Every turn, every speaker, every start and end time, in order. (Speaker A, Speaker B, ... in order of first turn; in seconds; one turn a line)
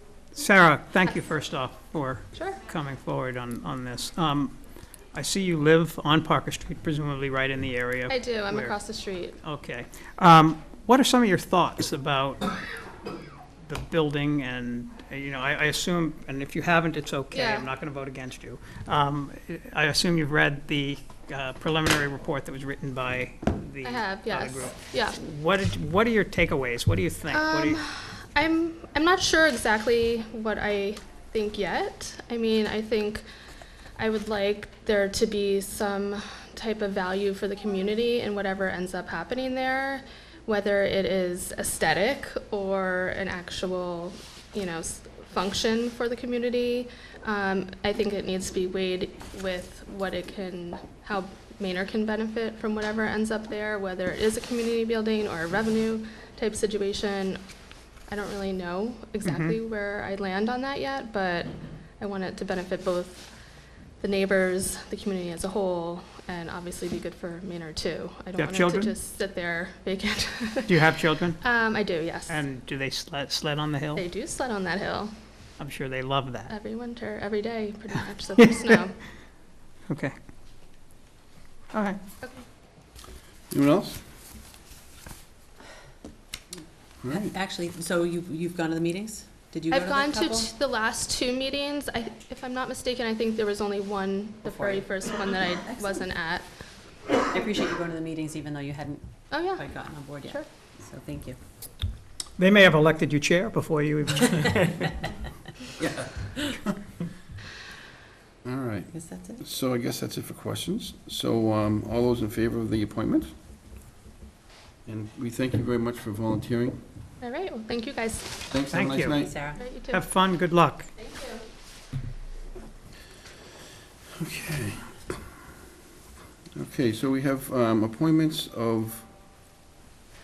Speaker A: 0.3-4.5
Speaker A: 5.1-8.8
Speaker B: 8.1-9.4
Speaker A: 9.4-12.5
Speaker A: 13.7-27.8
Speaker B: 17.3-17.7
Speaker B: 23.8-25.2
Speaker B: 27.3-33.2
Speaker B: 34.0-57.4
Speaker B: 58.1-63.3
Speaker A: 59.2-59.6
Speaker B: 64.0-70.8
Speaker A: 68.3-68.9
Speaker A: 70.7-71.4
Speaker B: 71.4-72.4
Speaker A: 72.3-74.0
Speaker B: 74.0-75.1
Speaker A: 75.6-76.5
Speaker B: 76.5-79.0
Speaker A: 79.9-80.1
Speaker A: 81.7-82.0
Speaker C: 83.5-84.0
Speaker C: 87.0-87.3
Speaker D: 87.1-90.5
Speaker B: 89.7-96.5
Speaker D: 94.4-96.0
Speaker D: 97.3-101.4
Speaker B: 99.3-99.7
Speaker A: 102.4-104.9
Speaker D: 105.8-106.5
Speaker C: 108.5-113.3
Speaker D: 108.9-109.4
Speaker C: 114.9-116.8
Speaker B: 117.2-118.3
Speaker C: 118.5-119.4
Speaker A: 118.7-119.2
Speaker D: 119.2-119.6
Speaker B: 119.5-120.1
Speaker A: 119.9-120.9
Speaker B: 121.0-121.4
Speaker C: 124.2-125.0
Speaker C: 126.5-129.1